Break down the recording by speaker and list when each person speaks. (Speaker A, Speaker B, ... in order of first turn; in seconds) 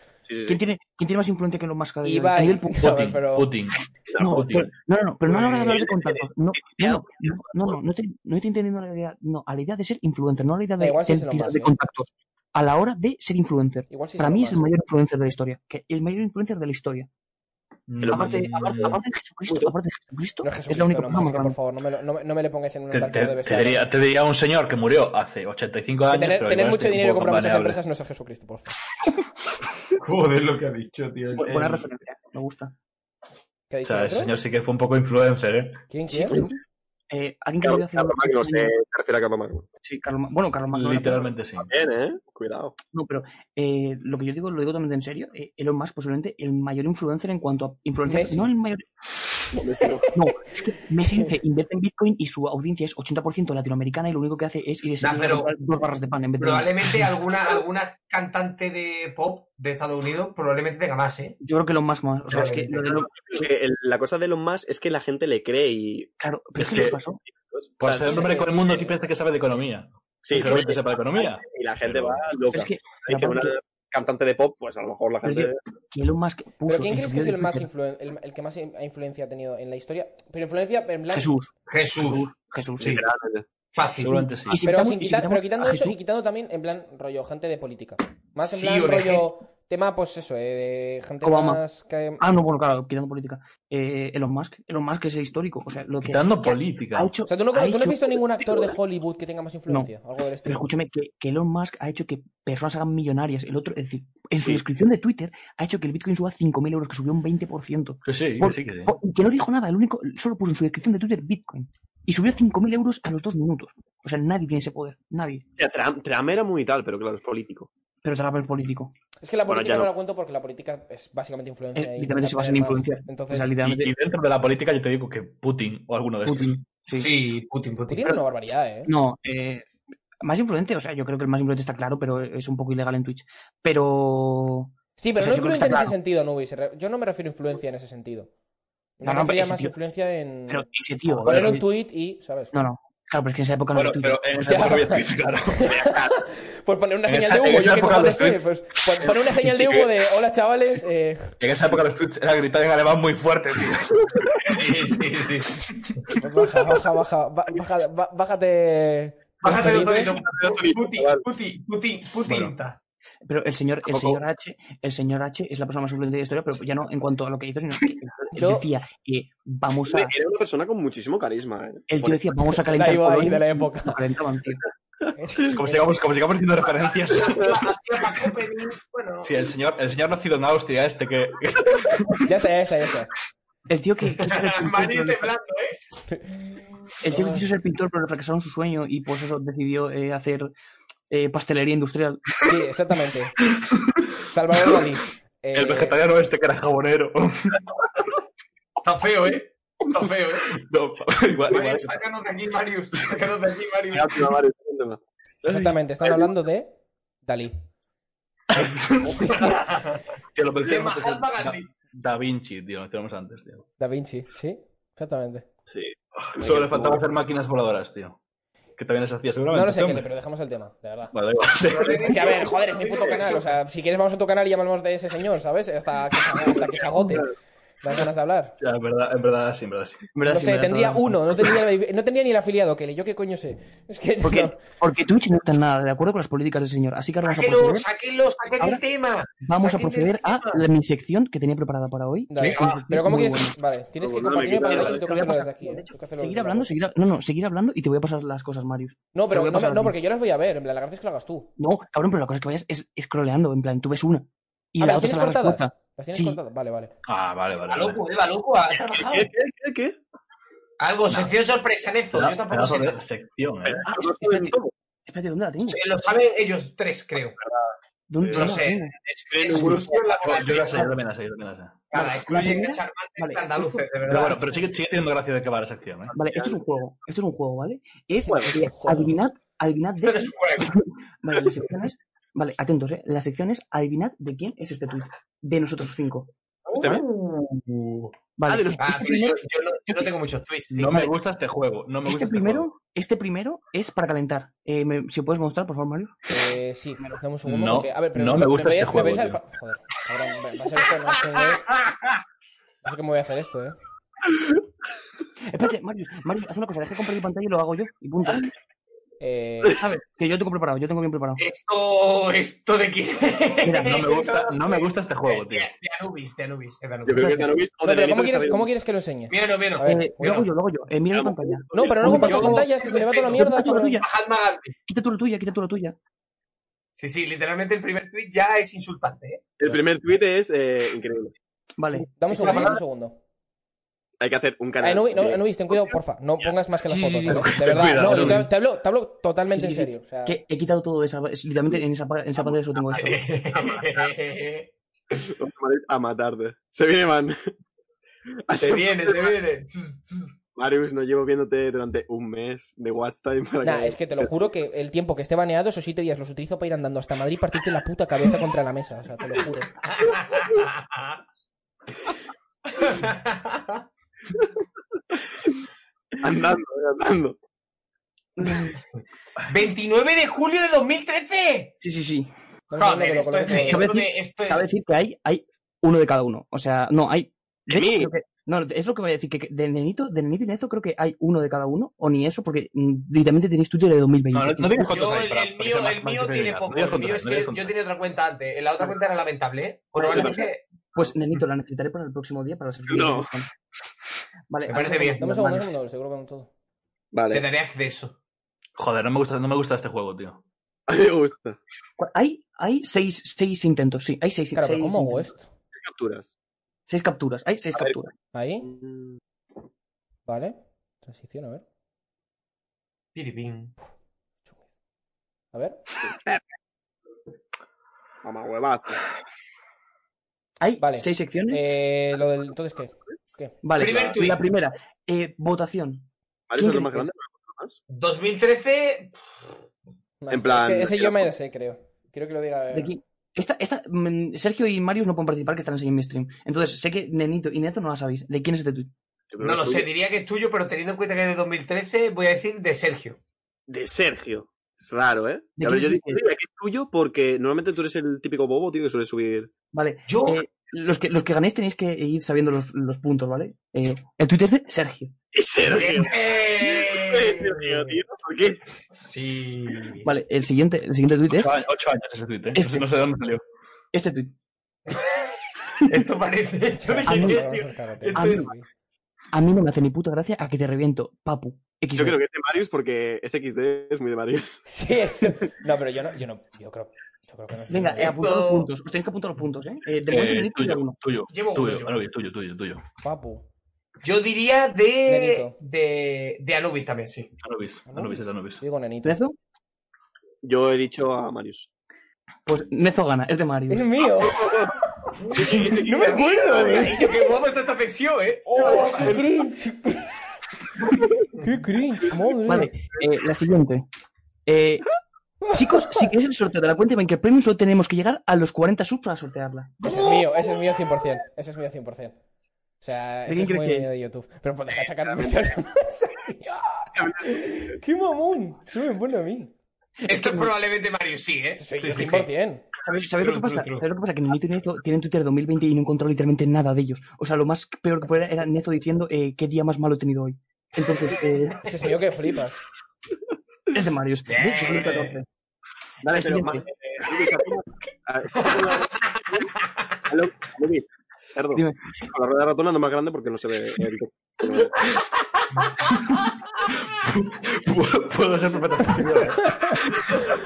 Speaker A: 0.2-0.6, 4.1-4.4, 5.3-7.4, 18.0-19.7, 37.6-39.7, 41.6-42.7, 49.5-50.1, 62.9-66.1, 67.3-68.3, 70.2-75.6, 82.8-83.5, 115.6-117.7, 119.5-119.9, 160.2-161.2, 163.9-164.2, 169.9-172.2, 203.9-205.0, 215.7-217.0, 244.0-245.1, 258.9-260.0, 263.7-264.7, 267.4-267.6, 268.2-268.5, 269.3-270.6, 276.1-276.7, 278.2-278.7, 286.7-289.4, 317.0-318.7, 321.1-322.6, 329.6-331.3, 334.2-335.9, 343.6-344.0, 345.1-347.5, 348.5-349.4, 350.6-354.3, 366.2-367.4, 377.7-378.1, 390.0-390.4, 392.9-393.3, 397.1-397.4, 400.9-401.6, 405.7-406.3, 407.7-408.0, 408.6-409.2, 418.2-419.0, 426.5-427.8, 430.3-431.3, 439.3-439.9, 443.7-449.5, 455.3-458.6, 471.9-474.6, 490.4-491.7, 494.3-494.7, 516.9-517.8, 536.0-539.5, 540.1-544.9
Speaker B: 0.5-3.0, 4.2-17.1, 18.1-21.6, 31.3-32.7, 36.1-36.6, 37.1-38.7, 39.8-41.3, 42.9-48.8, 50.1-57.1, 61.4-63.4, 66.2-67.2, 72.5-73.5, 75.2-77.7, 81.1-83.0, 84.0-86.0, 91.2-91.6, 92.2-98.7, 100.4-115.4, 118.0-118.9, 121.8-123.9, 126.2-127.1, 128.8-129.7, 130.2-135.9, 139.0-139.7, 140.5-141.7, 142.5-144.7, 163.2-170.2, 171.9-174.6, 183.7-185.3, 187.0-190.5, 191.1-192.4, 230.1-231.3, 234.2-237.9, 239.4-243.5, 244.6-249.9, 251.6-256.4, 263.8-265.8, 268.1-268.9, 269.5-269.9, 271.9-274.4, 276.1-287.0, 288.4-290.1, 292.0-296.3, 305.5-308.5, 310.2-311.4, 313.6-314.0, 317.1-317.6, 319.8-322.7, 323.3-324.1, 324.9-325.9, 331.8-332.8, 337.2-338.4, 339.5-343.2, 368.4-368.7, 371.8-372.3, 373.5-384.9, 389.9-393.5, 394.5-395.7, 402.0-405.3, 406.9-408.1, 420.6-421.6, 423.6-427.1, 432.7-438.9, 445.6-446.2, 449.7-455.1, 460.0-461.5, 462.5-462.8, 463.9-464.3, 467.1-467.4, 468.1-468.5, 469.3-472.2, 477.7-481.0, 489.0-489.4, 492.4-493.9, 502.5-503.8, 504.4-504.9, 505.5-509.8, 513.3-513.9, 520.0-520.5, 522.8-531.9, 533.7-535.2, 536.0-536.6, 541.5-541.8
Speaker C: 2.0-3.5, 10.8-11.7, 13.9-14.7, 20.4-23.9, 26.1-28.7, 33.7-34.4, 35.9-36.4, 48.0-48.5, 68.1-68.8, 76.7-81.3, 84.6-92.2, 97.3-100.7, 119.2-123.5, 127.9-128.9, 135.0-138.3, 139.0-140.7, 141.2-142.5, 144.4-151.3, 156.2-160.2, 168.3-168.7, 172.7-174.0, 175.2-175.8, 182.2-183.1, 187.1-187.5, 192.4-193.3, 194.3-196.0, 205.4-206.7, 207.2-207.6, 213.8-215.4, 219.5-221.1, 222.0-227.3, 227.8-228.6, 230.3-234.6, 242.3-246.7, 249.1-251.5, 254.8-256.9, 278.2-279.2, 296.3-301.7, 302.8-303.8, 309.2-309.8, 317.8-320.5, 321.7-324.0, 332.2-333.2, 334.8-340.4, 353.6-359.7, 372.7-373.9, 395.2-396.5, 404.5-405.4, 408.3-408.6, 410.3-411.6, 415.5-415.8, 420.8-423.6, 430.2-432.9, 466.8-468.7, 474.7-478.1, 483.0-483.4, 485.1-485.6, 487.9-489.2, 493.7-494.4, 495.7-497.1, 498.5-500.1, 501.4-502.7, 505.4-506.1, 509.9-512.2, 512.8-519.5, 521.6-522.6, 531.6-532.6, 549.4-549.8
Speaker D: 2.8-4.7, 17.9-19.0, 22.9-27.8, 33.8-35.8, 40.7-41.7, 66.6-67.0, 67.8-72.3, 84.0-84.6, 96.0-97.1, 108.0-108.9, 123.4-126.5, 141.1-141.6, 143.7-146.0, 147.1-148.5, 149.0-149.9, 151.4-154.9, 155.7-156.2, 162.2-162.5, 175.5-177.6, 179.2-182.3, 195.5-197.6, 200.5-202.0, 208.5-209.3, 210.3-213.7, 216.2-218.2, 218.8-220.1, 221.1-222.4, 228.6-230.1, 257.1-258.0, 261.1-261.3, 262.1-263.9, 270.2-271.9, 274.1-276.1, 290.7-292.7, 297.4-299.4, 313.8-315.7, 336.9-338.5, 384.3-387.8, 398.8-400.4, 461.3-463.4, 480.1-482.8, 487.4-488.6, 546.9-550.0
Speaker E: 30.0-31.6, 55.0-55.5, 56.4-61.4, 62.3-63.0, 81.7-82.3, 83.7-84.2, 88.4-89.3, 127.0-128.2, 154.5-155.5, 159.4-162.8, 176.9-179.4, 184.2-185.8, 198.8-200.5, 201.5-204.2, 209.2-210.0, 210.6-211.7, 221.6-223.5, 237.2-240.6, 242.4-242.8, 257.7-259.3, 260.8-263.0, 265.6-267.4, 268.3-270.9, 271.9-274.4, 280.0-280.8, 288.8-291.1, 301.4-301.9, 309.8-310.0, 311.4-317.5, 319.3-319.8, 321.7-323.4, 324.0-324.7, 327.0-329.5, 332.3-332.7, 342.9-344.7, 348.6-350.3, 359.8-361.2, 362.8-363.8, 369.4-371.7, 372.8-374.7, 384.8-390.6, 394.7-395.2, 397.3-398.1, 413.1-413.7, 423.8-424.4, 427.9-429.2, 439.4-443.2, 450.1-450.4, 455.7-457.9, 458.9-460.1, 465.9-468.5, 478.0-478.7, 481.3-482.0, 484.0-487.3, 495.1-499.2, 509.8-510.3, 520.1-522.3, 523.2-523.8, 534.3-535.2, 538.4-539.4